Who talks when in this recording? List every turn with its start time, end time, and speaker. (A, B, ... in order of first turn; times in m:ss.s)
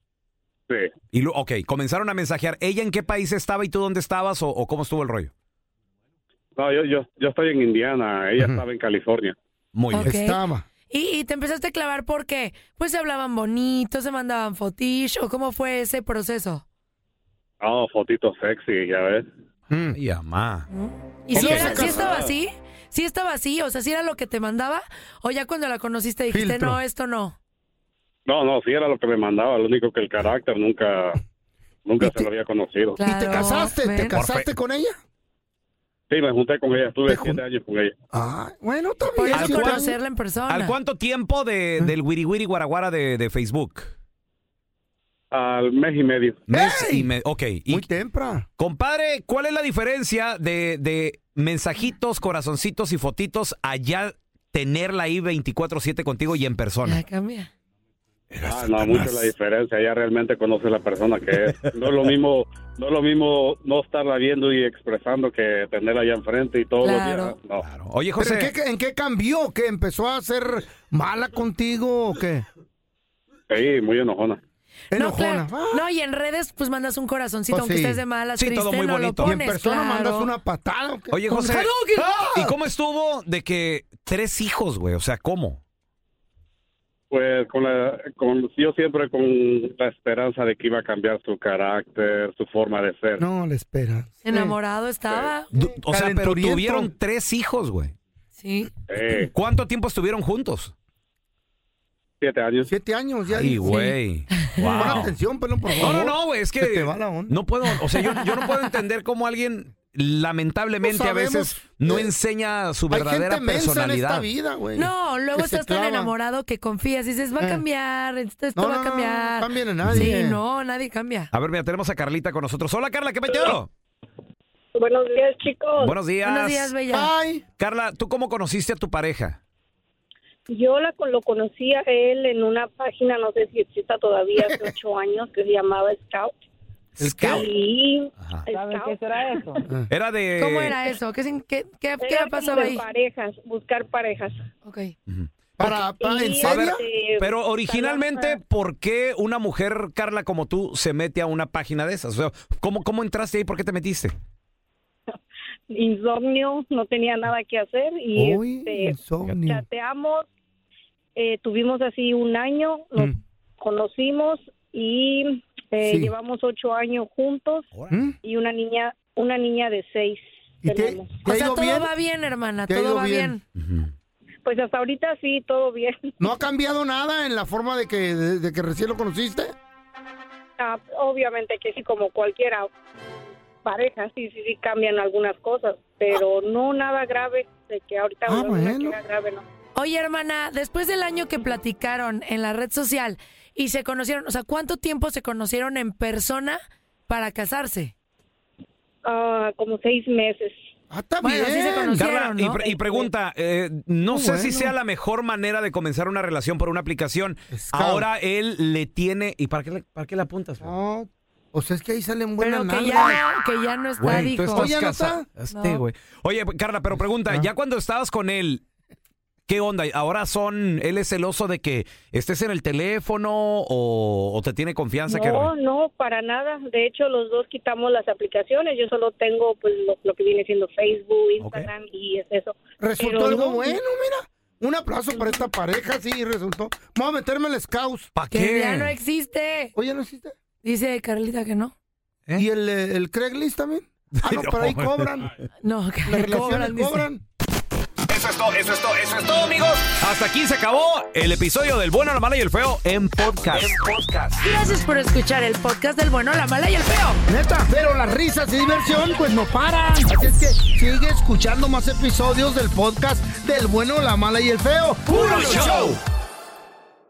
0:00.7-0:00.9 A
0:01.1-0:05.3 B
0:06.6-0:09.3 A
0:09.7-0:10.1 B
0:09.9-0:10.4 C
0:10.0-0:10.6 D
0:10.9-0:16.6 C
0:17.6-0:19.3 A
0:19.7-0:20.0 D
0:19.9-0:20.7 B
0:20.7-0:27.4 C
0:21.3-0:21.8 B
0:21.3-0:22.2 D
0:21.4-0:22.3 A
0:26.3-0:26.8 D
0:28.3-0:31.2 A
0:31.8-0:33.0 A
0:32.0-0:32.3 D
0:33.0-0:34.2 C
0:33.0-0:35.0 D
0:34.1-0:34.5 B
0:36.1-0:37.9 A
0:37.1-0:37.4 D
0:38.1-0:40.0 D
0:39.1-0:40.7 C
0:39.3-0:39.8 B
0:40.5-0:43.9 B
0:45.3-0:46.4 A
0:46.5-0:47.9 B
0:46.5-0:47.1 D
0:47.7-0:48.4 D
0:48.6-0:57.0 B
0:56.8-0:57.5 C
0:58.3-0:59.3 B
0:58.4-1:07.6 A
1:01.5-1:01.7 B
1:06.8-1:07.3 C
1:07.6-1:08.5 B
1:08.2-1:12.4 D
1:13.5-1:14.4 A
1:14.9-1:15.8 D
1:14.9-1:20.3 C
1:17.5-1:18.0 D
1:18.4-1:19.3 B
1:19.2-1:22.5 D
1:21.1-1:25.6 B
1:21.3-1:22.0 C
1:27.1-1:33.2 A
1:33.2-1:34.6 D
1:34.2-1:35.5 C
1:35.5-1:36.9 D
1:35.6-1:38.0 B
1:38.4-1:38.7 C
1:38.9-1:39.3 A
1:39.3-1:40.7 B
1:42.2-1:42.7 A
1:42.6-1:43.8 D
1:43.3-1:45.1 B
1:44.4-1:44.9 C
1:44.6-1:47.4 D
1:45.8-1:54.3 B
1:50.8-1:52.1 D
1:52.9-1:56.1 D
1:54.8-2:01.3 C
1:57.4-1:57.6 D
1:58.5-2:00.4 D
2:01.3-2:03.7 B
2:04.7-2:06.0 E
2:05.8-2:06.7 B
2:06.2-2:07.1 C
2:06.9-2:07.4 D
2:07.6-2:09.4 B
2:10.5-2:16.4 E
2:17.0-2:17.5 D
2:17.0-2:17.5 B
2:17.2-2:19.7 E
2:18.2-2:18.5 B
2:19.9-2:20.8 B
2:20.4-2:22.8 C
2:22.0-2:24.4 E
2:24.6-2:24.9 C
2:25.1-2:25.8 B
2:25.6-2:26.8 D
2:26.0-2:28.4 E
2:26.4-2:34.1 B
2:35.7-2:40.2 E
2:38.1-2:39.6 D
2:41.2-2:47.7 E
2:45.8-2:46.1 D
2:47.9-2:48.2 D
2:48.2-2:51.1 E
2:50.6-2:51.9 D
2:51.2-2:53.4 C
2:52.7-2:53.4 D
2:53.6-2:53.9 B
2:54.4-2:56.1 E
2:56.2-2:59.5 D
3:00.6-3:02.7 E
3:03.6-3:09.4 E
3:08.2-3:09.0 D
3:09.8-3:17.9 C
3:19.0-3:20.6 E
3:20.9-3:22.0 D
3:21.2-3:22.6 C
3:22.0-3:30.7 B
3:22.6-3:23.1 E
3:24.1-3:24.7 D
3:27.5-3:28.1 D
3:30.6-3:33.2 D
3:32.4-3:34.7 C
3:34.0-3:38.6 B
3:34.5-3:35.2 D
3:35.5-3:35.8 C
3:39.5-3:45.5 B
3:45.1-3:53.8 E
3:51.4-3:51.7 B
3:52.8-3:58.1 D
3:58.1-3:58.9 B
3:58.3-3:59.7 C
3:59.7-4:00.3 D
4:00.6-4:01.7 C
4:02.4-4:05.3 D
4:04.1-4:05.3 B
4:05.6-4:07.0 C
4:06.0-4:07.2 D
4:08.1-4:14.3 B
4:14.4-4:17.2 C
4:17.3-4:26.0 D
4:25.1-4:26.0 B